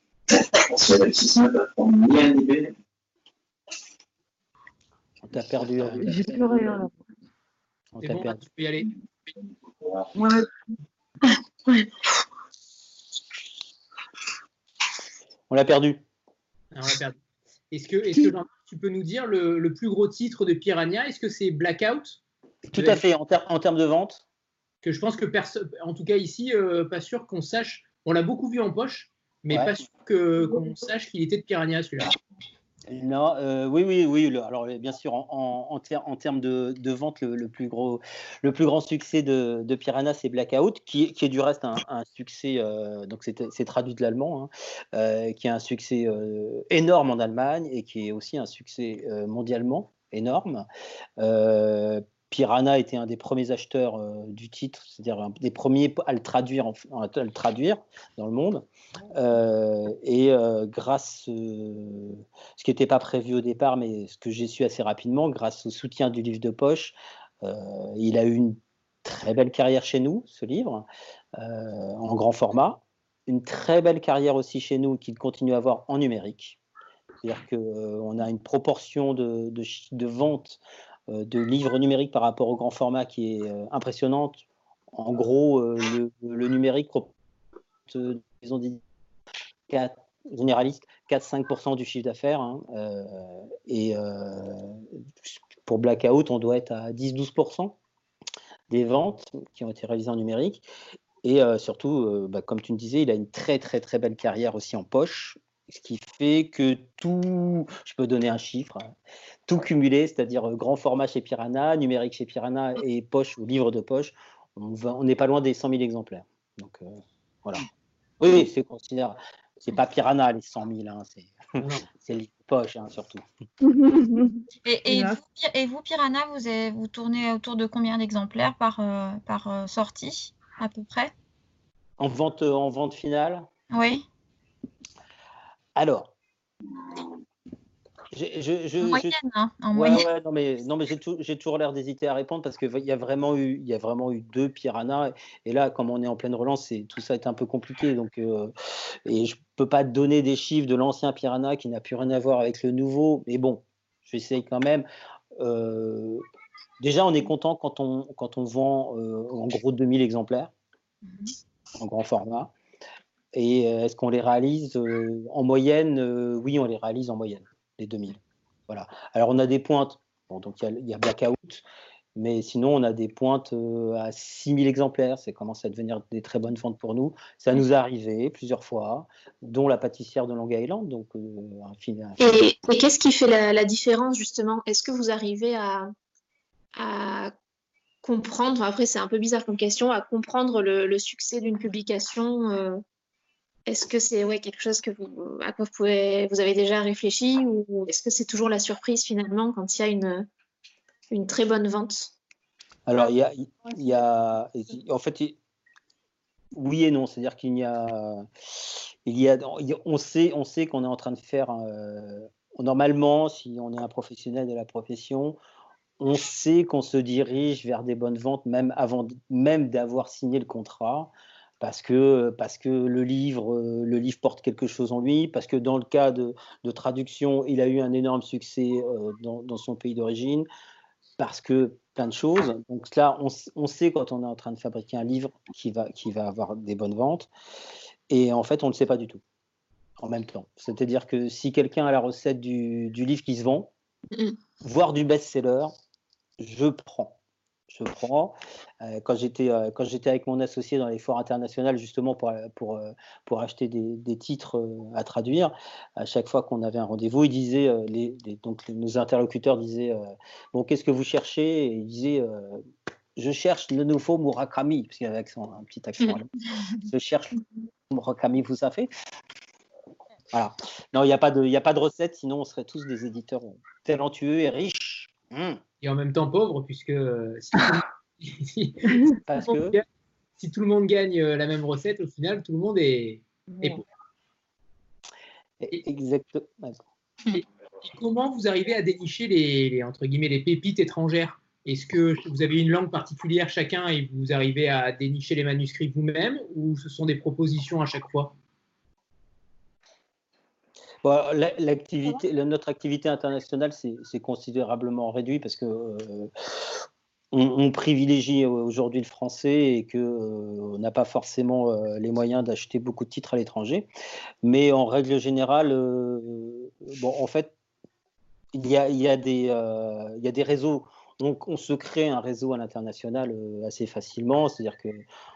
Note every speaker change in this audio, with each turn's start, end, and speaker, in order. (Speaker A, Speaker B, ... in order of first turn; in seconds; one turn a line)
Speaker A: 5.2-6.2
Speaker B: 5.8-6.9
Speaker A: 7.9-8.4
Speaker C: 8.0-8.9
Speaker B: 10.1-10.5
Speaker A: 15.5-16.0
Speaker C: 16.7-17.2
Speaker C: 17.7-22.2
Speaker A: 22.7-24.2
Speaker C: 22.8-23.0
Speaker C: 24.8-32.2
Speaker A: 32.9-50.6
Speaker A: 51.2-70.8
Speaker A: 71.4-76.6
Speaker A: 77.2-87.1
Speaker A: 87.9-88.8
Speaker A: 89.7-97.8
Speaker A: 98.7-100.6
Speaker A: 101.2-108.9
Speaker A: 109.5-117.6
Speaker A: 118.2-123.2
Speaker B: 123.6-125.2
Speaker D: 124.6-131.1
Speaker A: 132.0-133.5
Speaker D: 133.7-134.0
Speaker A: 135.8-136.1
Speaker A: 138.1-139.1
Speaker D: 138.8-140.1
Speaker A: 139.7-148.5
Speaker A: 149.1-154.8
Speaker A: 155.4-156.2
Speaker A: 156.8-160.5
Speaker A: 161.8-162.5
Speaker A: 163.3-168.2
Speaker A: 168.7-171.6
Speaker A: 172.2-182.2
Speaker E: 182.2-185.9
Speaker E: 186.8-187.3
Speaker E: 188.0-192.8
Speaker E: 193.7-200.3
Speaker E: 201.1-202.1
Speaker A: 202.9-205.3
Speaker A: 206.5-215.4
Speaker A: 216.0-230.5
Speaker A: 231.2-237.3
Speaker A: 238.1-239.2
Speaker A: 240.0-243.7
Speaker A: 244.6-245.7
Speaker A: 246.4-247.1
Speaker A: 247.7-262.6
Speaker A: 263.2-266.3
Speaker A: 266.8-268.9
Speaker A: 270.3-275.6
Speaker C: 275.8-279.8
Speaker A: 279.3-279.8
Speaker C: 280.4-283.8
Speaker B: 283.5-283.8
Speaker A: 285.6-286.8
Speaker C: 287.3-298.3
Speaker A: 301.0-306.3
Speaker A: 307.3-313.9
Speaker A: 314.4-317.5
Speaker A: 318.5-325.0